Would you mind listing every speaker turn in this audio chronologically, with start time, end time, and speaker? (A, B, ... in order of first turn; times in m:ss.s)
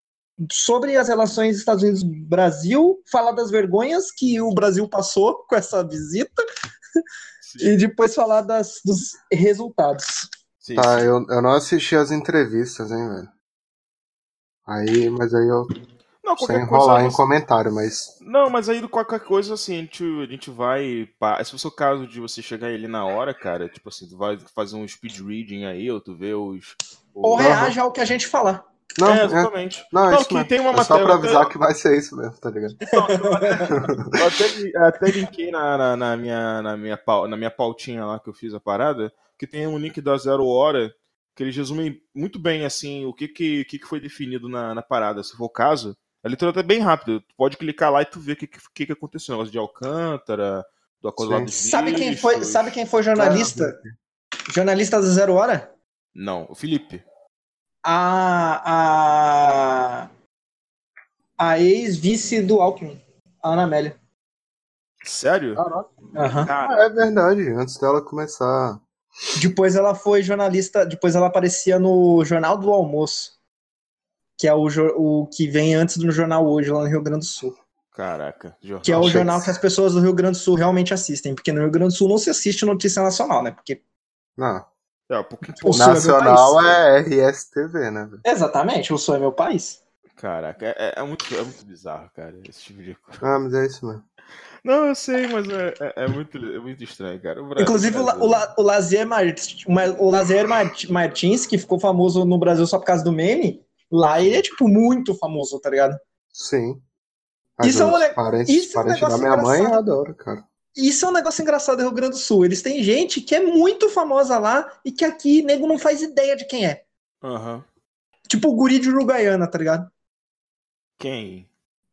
0:00.4-0:06.4 A
0:07.4-0:07.8 B
0:07.6-0:10.3 A
0:10.6-0:11.1 B
0:10.7-0:13.3 C
0:14.7-0:15.7 C
0:16.2-0:17.2 B
0:16.4-0:18.1 C
0:18.2-0:27.7 B
0:27.2-0:28.6 A
0:27.4-0:27.8 C
0:29.0-0:32.8 C
0:29.0-0:31.5 B
0:32.8-0:52.8 B
0:33.0-0:33.7 A
0:51.2-0:51.5 C
0:51.6-0:53.8 A
0:53.2-0:53.9 C
0:54.5-0:55.7 A
0:56.2-0:57.0 B
0:57.8-1:00.1 A
1:01.4-1:04.0 A
1:05.0-1:05.6 B
1:05.6-1:05.9 C
1:06.1-1:06.5 A
1:06.4-1:06.9 B
1:06.6-1:08.8 C
1:09.4-1:13.4 A
1:14.4-1:17.6 A
1:17.9-1:19.2 B
1:18.8-1:23.8 A
1:18.9-1:19.6 C
1:24.4-1:24.7 C
1:25.1-1:26.8 B
1:25.6-1:26.6 A
1:25.7-1:28.2 C
1:28.2-1:29.8 A
1:30.2-1:33.2 B
1:33.2-1:34.0 C
1:34.6-1:38.5 B
1:37.6-1:46.0 A
1:46.3-1:46.8 C
1:47.6-1:50.4 C
1:47.6-1:49.8 A
1:50.7-1:56.8 A
1:57.2-1:57.6 B
1:58.3-1:59.9 A
2:01.0-2:01.5 B